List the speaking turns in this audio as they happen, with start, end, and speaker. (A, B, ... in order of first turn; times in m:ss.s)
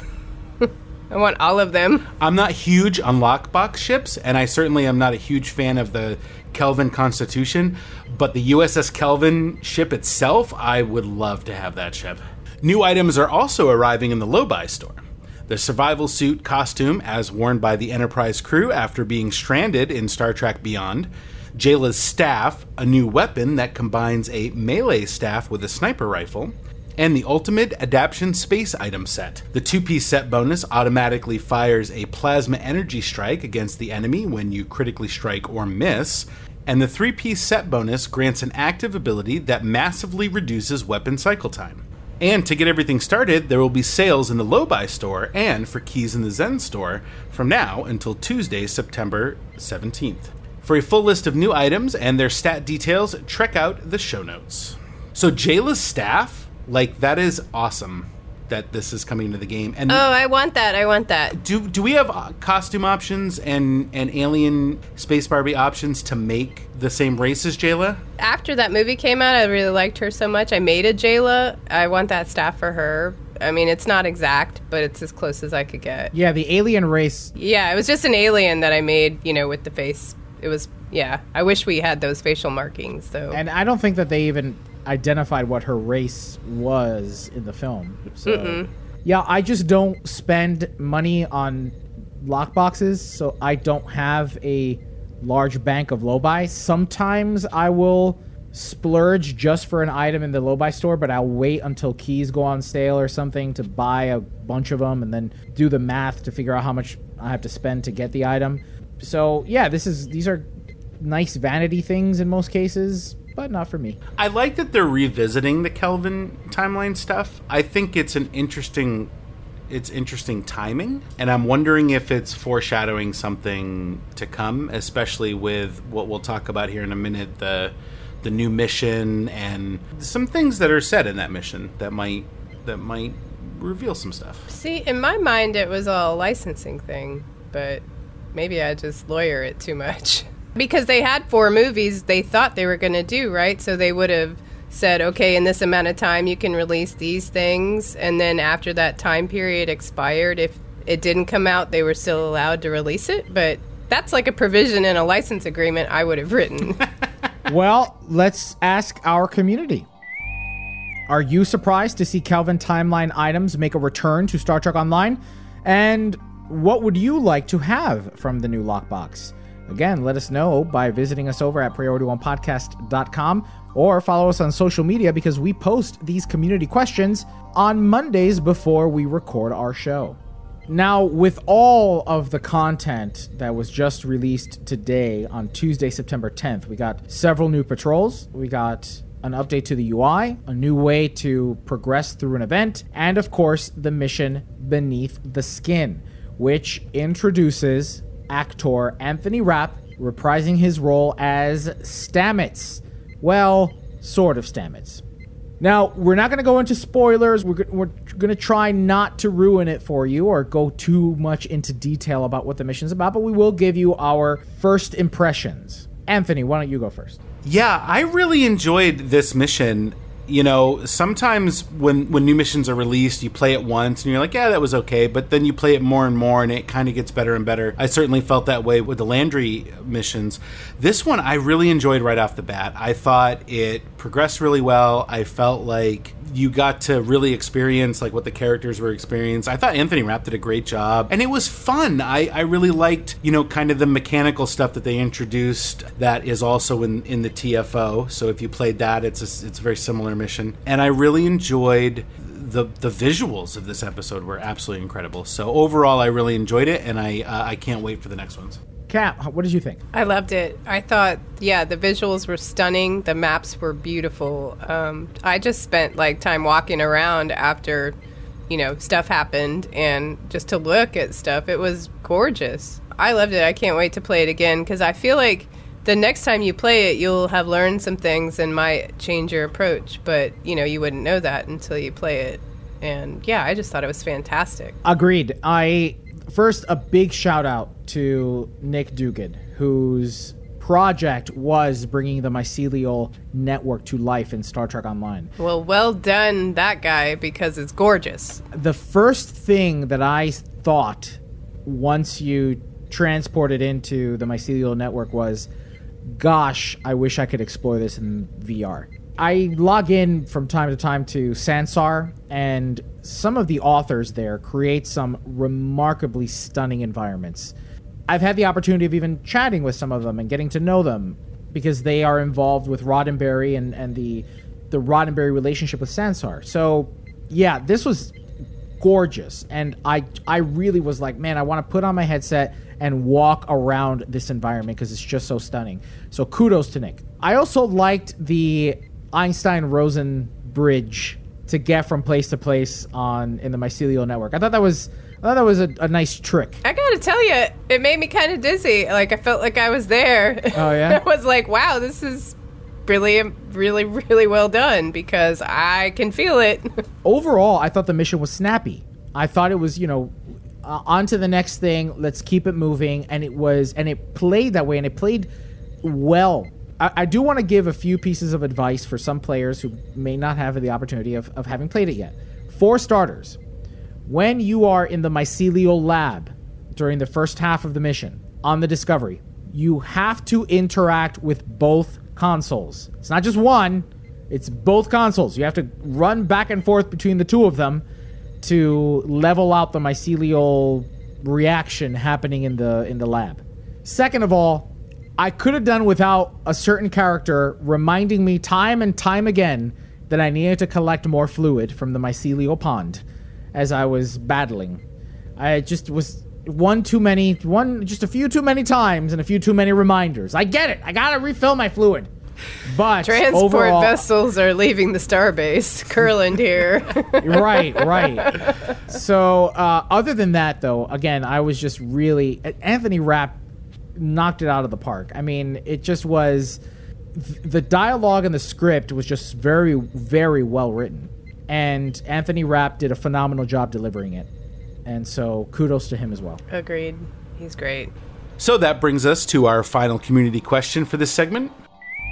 0:00.6-0:02.1 A
0:02.2-1:00.0 B
0:59.9-1:01.4 A
1:01.3-1:08.0 B
1:08.2-1:16.1 A
1:16.1-1:17.3 C
1:17.4-1:23.4 A
1:23.3-1:50.5 C
1:28.3-1:28.7 A
1:51.0-1:54.0 C
1:54.2-1:59.1 B
1:59.7-2:14.5 B
2:14.5-2:17.8 A
2:18.3-2:36.9 A
2:37.5-2:39.9 C
2:41.1-3:25.0 C
3:25.6-3:37.2 C
3:37.4-4:18.6 B
4:18.9-4:19.8 C
4:19.9-4:28.0 A
4:28.5-4:44.8 A
4:44.8-4:55.3 C
4:55.4-4:58.4 A
4:58.5-5:05.5 C
5:06.0-5:17.5 C
5:18.1-5:28.2 C
5:28.8-5:46.6 C
5:46.6-5:56.8 A
5:50.5-5:51.0 C
5:57.0-6:05.3 C
6:05.8-6:13.4 C
6:14.1-6:27.8 C
6:28.4-6:44.8 C
6:45.4-6:52.1 C
6:52.6-6:54.0 C
6:53.0-6:58.6 A
6:57.2-7:03.4 C
7:04.0-7:06.6 C
7:07.1-7:14.3 C
7:14.8-7:16.4 C
7:16.5-7:17.9 A
7:18.4-7:21.6 B